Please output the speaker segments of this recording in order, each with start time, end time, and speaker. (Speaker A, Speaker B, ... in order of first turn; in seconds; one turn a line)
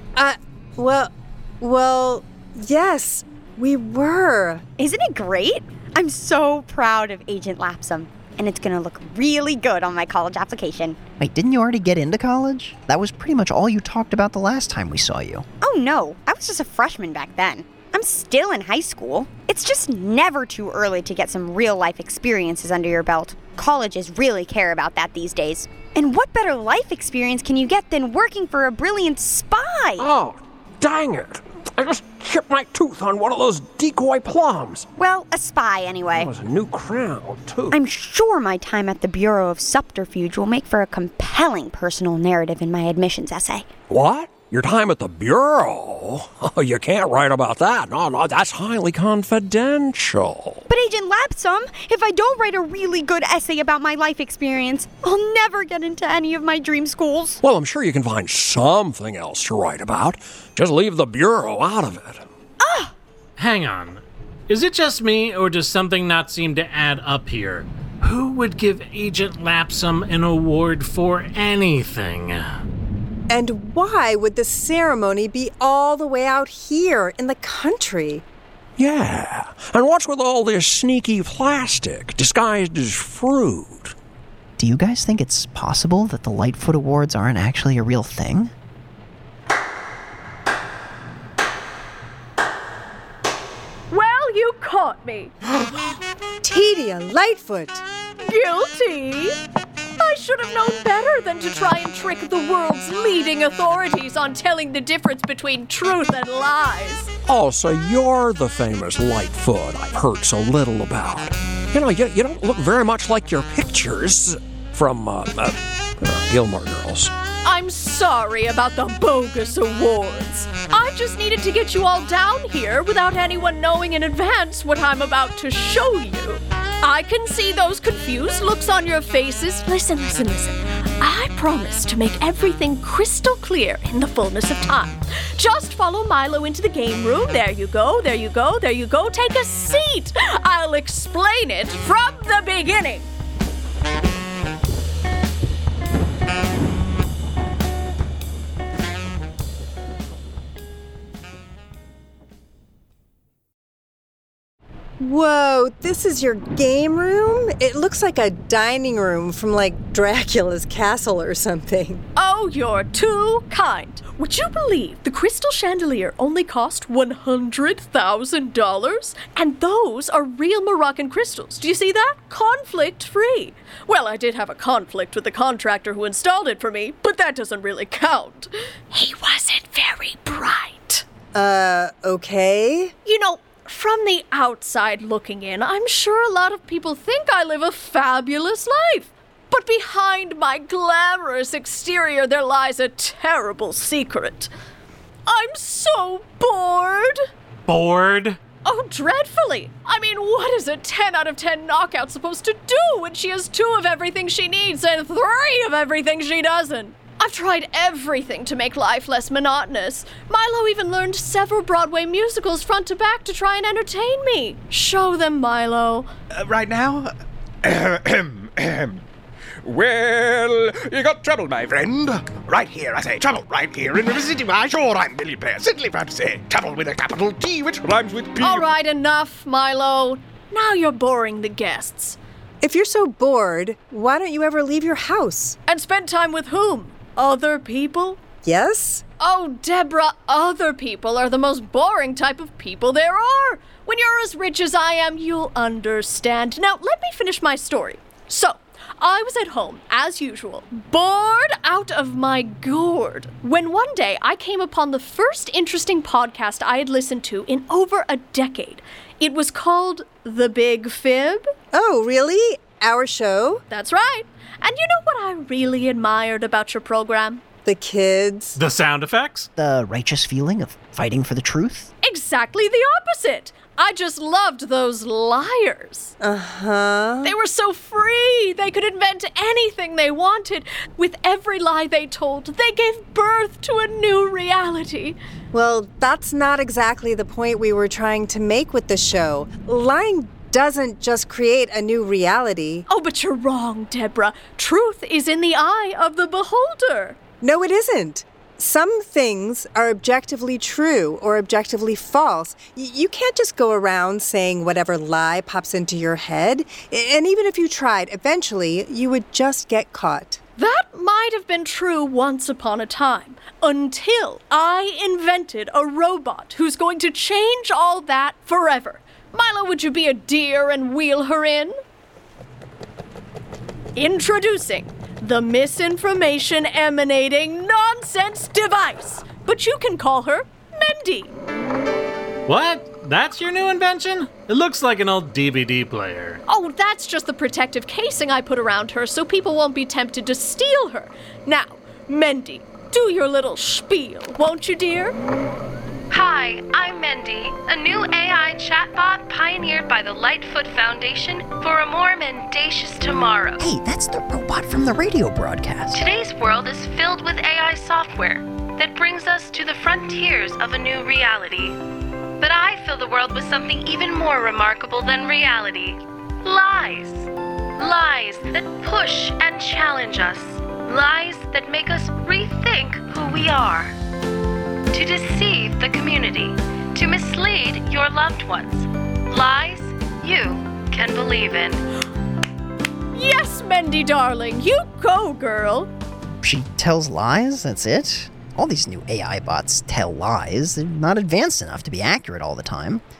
Speaker A: 0.1-4.6
Speaker B: 4.8-11.0
Speaker C: 11.2-15.4
Speaker B: 15.6-30.1
Speaker D: 30.0-34.9
Speaker B: 35.0-36.3
Speaker D: 36.1-37.8
Speaker B: 37.7-43.7
Speaker D: 43.9-50.7
Speaker B: 50.7-57.4
Speaker D: 57.4-62.2
Speaker B: 62.6-62.9
Speaker E: 63.4-72.6
Speaker A: 73.3-78.2
Speaker D: 78.8-83.9
Speaker C: 84.6-88.5
Speaker F: 93.9-95.3
Speaker A: 96.4-97.8
Speaker F: 98.3-99.4
Speaker F: 100.0-107.1
Speaker D: 107.3-117.1
Speaker F: 117.4-143.1
Speaker A: 155.0-162.0
Speaker F: 162.2-181.0
Speaker A: 181.3-182.9
Speaker F: 183.0-194.5
Speaker F: 195.2-197.2
Speaker E: 197.7-198.4
Speaker F: 198.6-216.1
Speaker G: 216.3-217.1
Speaker G: 217.6-219.0
Speaker G: 219.6-228.7
Speaker F: 228.4-232.2
Speaker A: 232.6-235.6
Speaker F: 235.7-238.2
Speaker A: 238.4-239.0
Speaker F: 239.2-261.5
Speaker A: 261.7-263.6
Speaker F: 263.7-267.4
Speaker A: 267.6-268.6
Speaker E: 268.6-269.5
Speaker C: 269.6-271.9
Speaker F: 272.0-276.1
Speaker A: 276.2-277.3
Speaker F: 277.2-285.2
Speaker A: 285.5-292.9
Speaker F: 292.9-297.2
Speaker A: 297.4-310.4
Speaker F: 310.6-321.8
Speaker F: 323.9-331.4
Speaker E: 332.4-336.4
Speaker F: 336.5-345.1
Speaker H: 346.1-353.6
Speaker C: 353.6-356.0
Speaker H: 355.9-361.8
Speaker H: 362.4-373.9
Speaker H: 374.9-381.8
Speaker F: 383.1-385.9
Speaker C: 386.4-393.0